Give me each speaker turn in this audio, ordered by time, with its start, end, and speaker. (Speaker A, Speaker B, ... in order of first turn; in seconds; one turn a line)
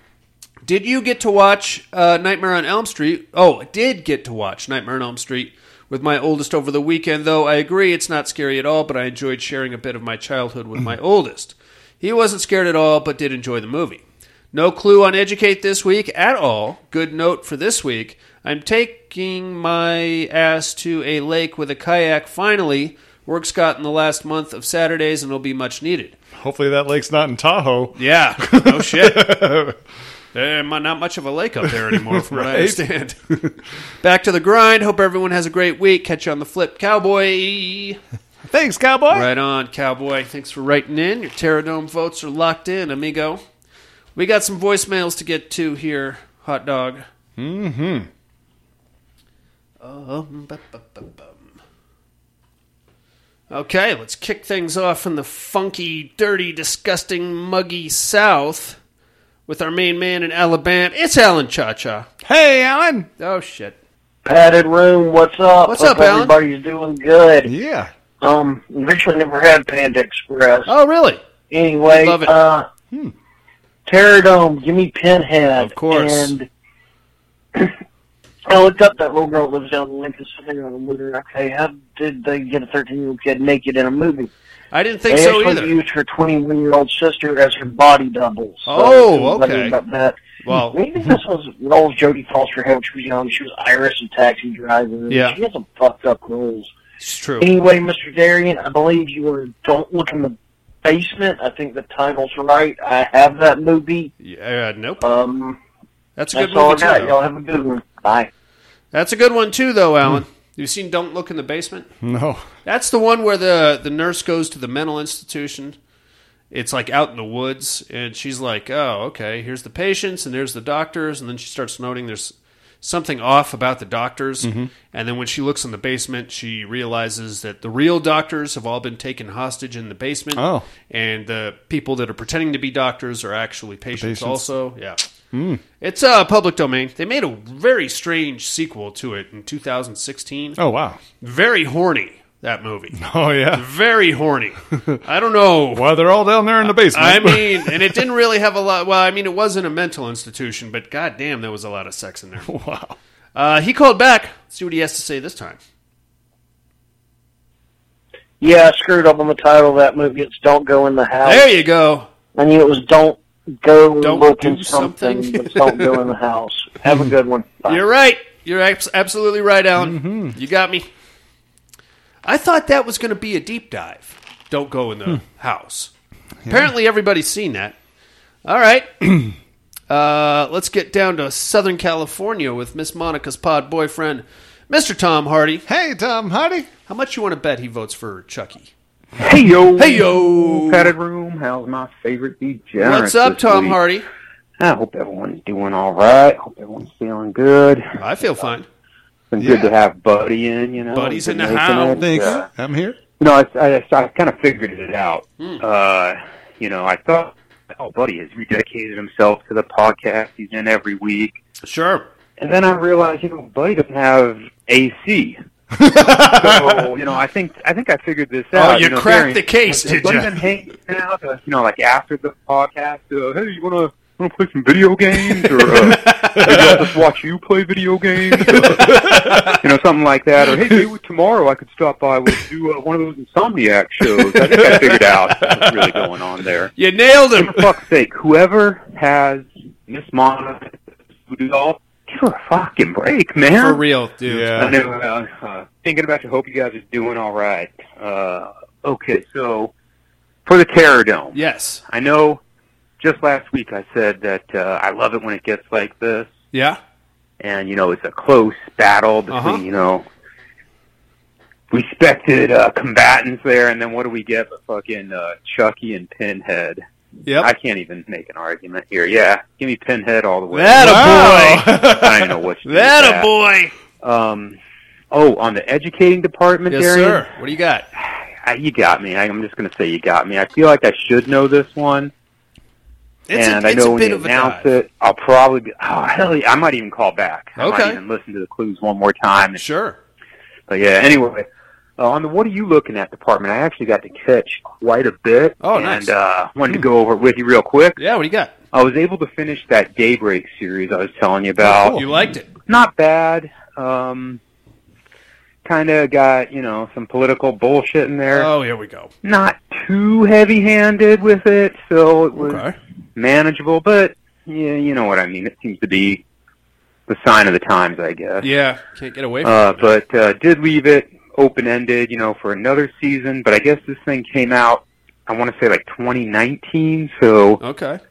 Speaker A: 0.6-26.2
Speaker B: 26.4-29.8
Speaker A: 27.9-29.5
Speaker A: 30.3-33.2
Speaker B: 31.9-33.6
Speaker A: 34.0-38.0
Speaker B: 38.5-39.3
Speaker A: 39.1-43.4
Speaker A: 44.1-47.1
Speaker B: 47.4-48.1
Speaker A: 49.8-51.6
Speaker A: 53.5-58.8
Speaker A: 59.5-62.1
Speaker B: 62.2-63.1
Speaker A: 63.2-63.8
Speaker C: 64.2-67.5
Speaker A: 65.7-66.4
Speaker B: 67.5-67.9
Speaker C: 68.2-70.7
Speaker A: 70.7-71.2
Speaker C: 71.5-72.7
Speaker A: 71.9-72.3
Speaker C: 73.9-76.5
Speaker A: 75.6-76.3
Speaker C: 78.5-84.3
Speaker A: 84.7-85.8
Speaker C: 85.1-96.7
Speaker A: 88.7-89.8
Speaker A: 90.4-90.8
Speaker A: 95.1-95.4
Speaker A: 97.0-97.5
Speaker C: 97.4-104.1
Speaker A: 104.2-105.0
Speaker C: 105.0-105.6
Speaker A: 106.2-107.1
Speaker C: 106.3-108.3
Speaker A: 108.9-111.9
Speaker B: 112.0-112.5
Speaker A: 112.7-115.8
Speaker A: 116.5-135.0
Speaker B: 124.4-124.7
Speaker B: 130.3-130.7
Speaker B: 133.9-134.5
Speaker B: 135.3-135.6
Speaker A: 135.8-140.6
Speaker B: 140.6-141.0
Speaker A: 141.2-145.9
Speaker B: 143.0-143.7
Speaker B: 144.7-145.0
Speaker B: 145.7-148.0
Speaker A: 146.6-152.5
Speaker B: 152.5-153.0
Speaker A: 153.3-155.6
Speaker C: 158.4-161.5
Speaker A: 161.2-162.1
Speaker C: 162.3-167.8
Speaker A: 164.0-166.0
Speaker B: 166.9-167.1
Speaker A: 167.7-170.9
Speaker B: 169.8-170.3
Speaker A: 172.2-175.9
Speaker B: 176.4-176.7
Speaker A: 176.5-177.8
Speaker A: 178.4-179.0
Speaker A: 179.9-185.7
Speaker B: 185.7-186.7
Speaker A: 186.9-188.7
Speaker D: 189.2-193.8
Speaker A: 189.8-190.9
Speaker A: 192.8-194.1
Speaker D: 194.6-197.9
Speaker A: 198.0-198.7
Speaker D: 199.3-202.5
Speaker B: 199.4-199.7
Speaker A: 200.9-202.1
Speaker B: 201.9-203.0
Speaker D: 203.2-211.3
Speaker A: 211.6-212.1
Speaker D: 212.4-236.7
Speaker B: 215.8-216.8
Speaker A: 218.5-220.4
Speaker A: 225.6-226.8
Speaker A: 228.4-229.6
Speaker A: 234.3-235.7
Speaker A: 236.8-237.6
Speaker D: 237.4-243.8
Speaker A: 243.6-244.7
Speaker B: 244.3-244.8
Speaker D: 244.6-249.7
Speaker D: 250.5-252.4
Speaker A: 251.3-251.8
Speaker D: 253.0-256.3
Speaker A: 256.5-256.8
Speaker D: 257.4-260.1
Speaker A: 259.3-259.6
Speaker D: 261.7-266.8
Speaker A: 267.3-267.5
Speaker D: 267.4-273.3
Speaker A: 270.5-272.0
Speaker B: 270.8-272.2
Speaker A: 272.6-273.7
Speaker D: 274.0-274.6
Speaker D: 275.1-277.3
Speaker A: 276.7-277.9
Speaker D: 278.0-282.1
Speaker A: 283.3-284.6
Speaker D: 283.3-289.6
Speaker A: 287.6-288.0
Speaker A: 289.6-290.0
Speaker D: 290.7-291.4
Speaker D: 292.0-298.0
Speaker A: 295.6-296.1
Speaker A: 298.0-298.5
Speaker D: 298.7-302.0
Speaker A: 301.6-302.5
Speaker B: 301.6-302.0
Speaker D: 302.6-304.4
Speaker D: 305.6-308.5
Speaker A: 308.3-309.1
Speaker D: 309.2-312.6
Speaker A: 312.3-312.8
Speaker D: 313.2-316.2
Speaker D: 317.1-318.5
Speaker A: 318.4-320.0
Speaker D: 319.4-327.6
Speaker A: 327.6-328.0